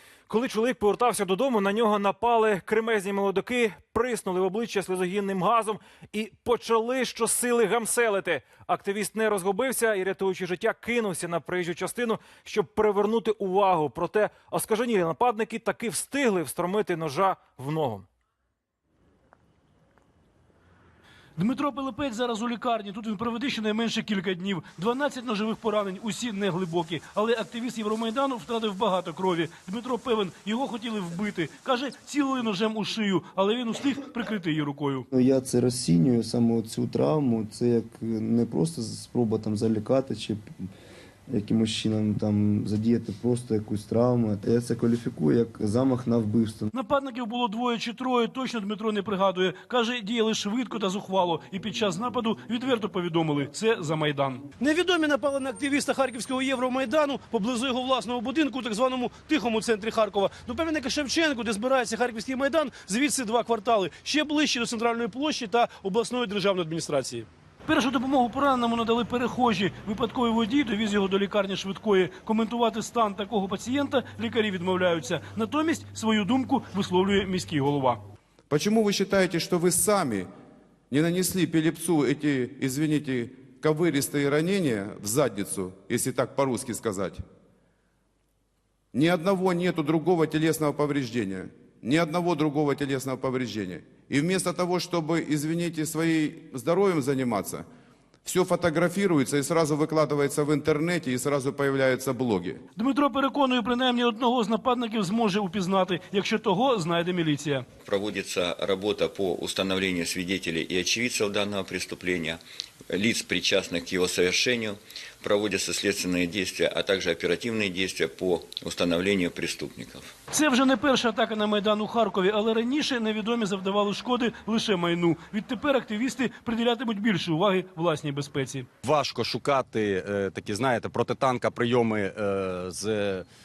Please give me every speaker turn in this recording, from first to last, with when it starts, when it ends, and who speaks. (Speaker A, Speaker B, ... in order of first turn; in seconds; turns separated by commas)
Speaker A: 0.3-18.1, Speaker B: 21.4-35.1, Speaker C: 35.1-40.5, Speaker C: 41.3-46.7, Speaker B: 46.7-78.0, Speaker D: 78.5-80.3, Speaker D: 80.9-87.2, Speaker D: 88.9-97.7, Speaker D: 98.2-102.6, Speaker B: 102.8-107.7, Speaker E: 107.8-120.1, Speaker B: 120.3-128.7, Speaker F: 128.8-133.3